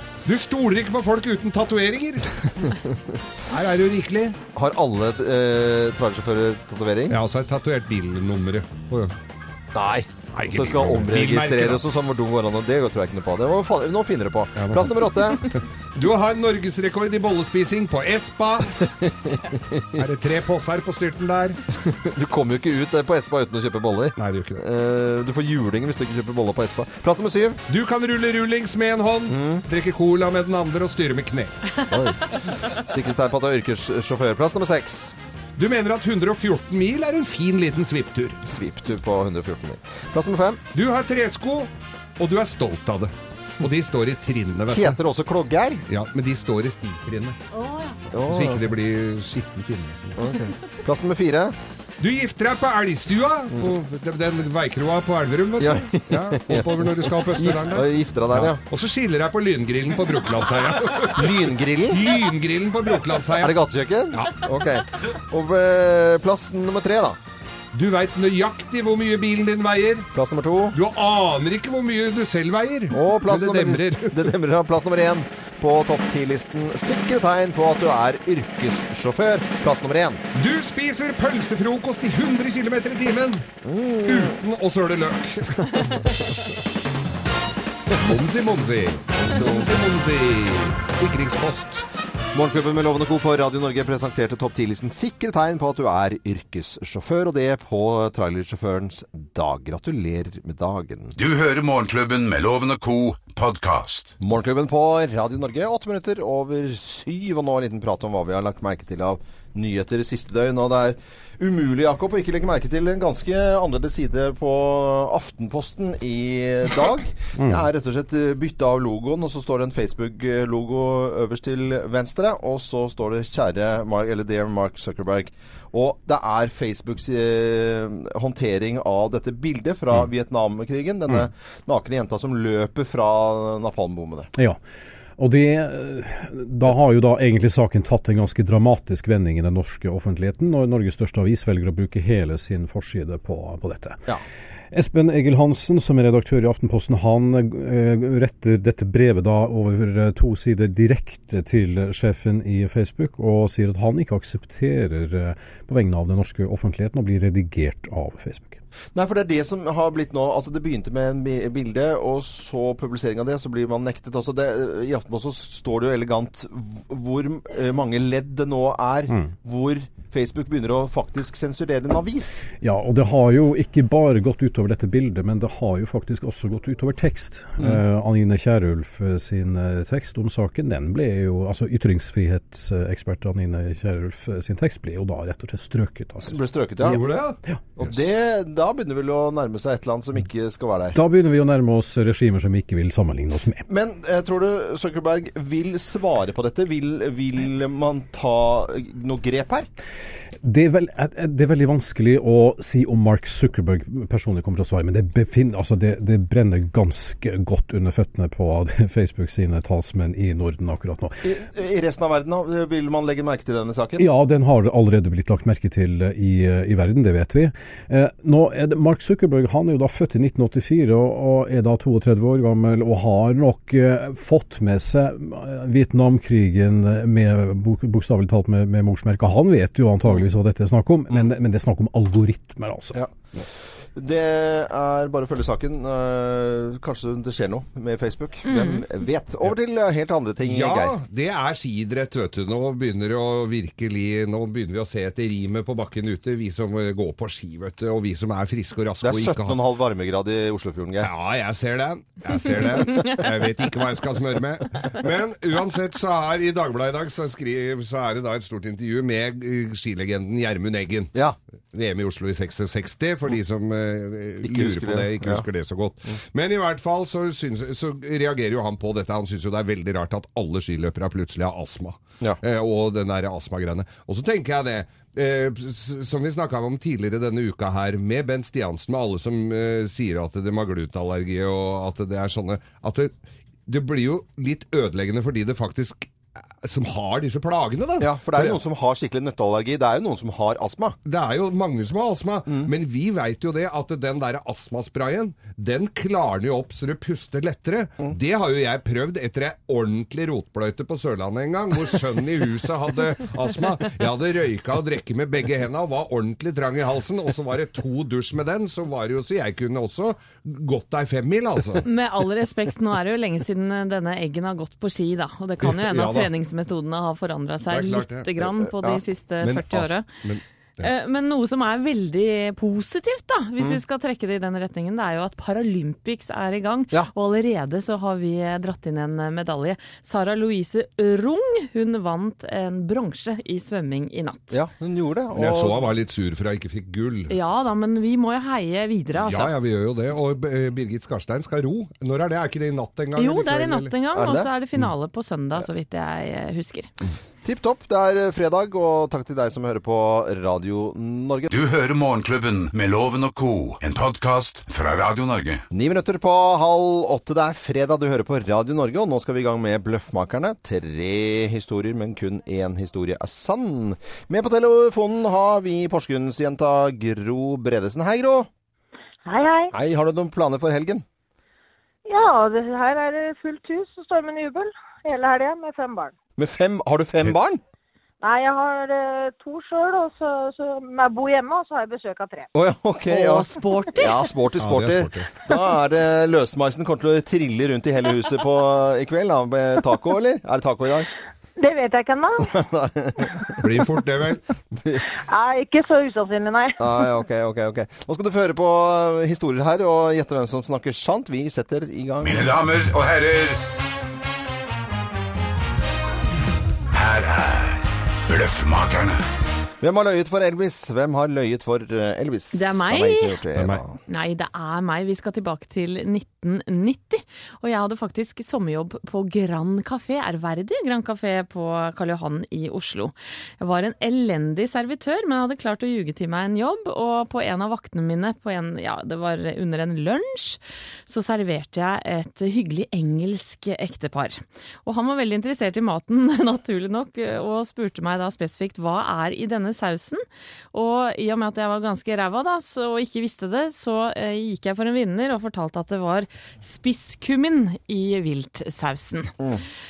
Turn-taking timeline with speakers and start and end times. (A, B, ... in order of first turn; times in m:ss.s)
0:00.2-0:02.8 A
0:02.7-0:03.2 B
0:03.4-0:04.4 A
0:04.5-0:07.2 B
0:07.1-0:09.1 A
0:09.7-0:15.5 B
0:10.3-0:11.8 A
0:14.6-0:18.7 A
0:18.8-0:20.0 B
0:19.9-0:21.6 A
0:21.8-0:27.6 B
0:24.2-0:24.6 A
0:27.7-0:31.7 A
0:29.3-0:29.6 B
0:31.9-0:35.2 B
0:35.6-0:38.4 A
0:38.4-0:40.6 B
0:40.7-0:45.0 A
0:44.7-0:45.8 B
0:45.9-0:47.4 A
0:48.1-0:48.6 B
0:48.2-0:50.2 A
0:50.2-0:51.6 B
0:52.0-1:03.6 A
0:55.6-0:58.6 B
1:01.1-1:02.0 B
1:03.4-1:07.2 B
1:04.1-1:04.5 A
1:07.7-1:10.1 A
1:10.1-1:10.8 B
1:10.7-1:14.3 A
1:12.9-1:20.2 B
1:20.3-1:23.4 A
1:23.6-1:24.4 B
1:24.0-1:26.1 A
1:28.0-1:31.8 A
1:29.3-1:29.7 B
1:32.3-1:41.2 B
1:41.2-1:44.2 C
1:44.2-2:14.3 B
2:15.2-2:24.0 D
2:24.7-2:38.6 D
2:38.9-2:52.5 B
2:52.6-3:07.8 D
3:06.3-3:07.0 B
3:06.8-3:07.4 A
3:07.8-3:11.0 B
3:10.9-3:13.6 D
3:13.7-3:19.7 B
3:20.4-3:31.2 D
3:31.2-3:34.1 B
3:34.0-3:53.0 D
3:53.9-4:01.0 B
3:58.4-3:58.8 E
4:00.4-4:09.6 A
4:09.0-4:11.1 B
4:11.0-4:21.1 A
4:21.7-4:43.1 A
4:24.4-4:25.4 B
4:43.7-4:48.6 A
4:48.0-4:51.0 B
4:51.0-5:11.8 A
5:11.8-5:20.0 E
5:15.6-5:16.3 A
5:17.6-5:18.3 A
5:18.5-5:19.0 B
5:19.4-5:20.9 A
5:20.8-5:34.6 E
5:34.5-5:35.9 B
5:35.3-5:37.3 A
5:37.3-5:39.5 E
5:39.1-5:43.9 A
5:43.2-5:46.9 E
5:44.1-5:44.5 B
5:47.4-5:51.5 B
5:51.5-5:55.6 C
5:55.7-6:08.5 B
6:09.2-6:09.7 F
6:09.7-6:11.0 B
6:12.0-6:16.1 F
6:16.4-6:17.6 B
6:18.2-6:22.5 F
6:22.5-6:31.1 B
6:23.1-6:24.1 E
6:24.6-6:25.3 A
6:31.6-6:32.5 F
6:32.4-6:33.4 B
6:33.2-6:33.5 F
6:33.6-6:34.4 A
6:34.7-6:35.0 B
6:35.3-6:36.8 F
6:36.8-6:42.5 B
6:42.2-6:43.6 C
6:46.9-6:49.2 C
6:49.8-6:54.0 B
6:52.5-6:53.4 E
6:53.5-6:53.8 A
6:54.1-7:29.4 E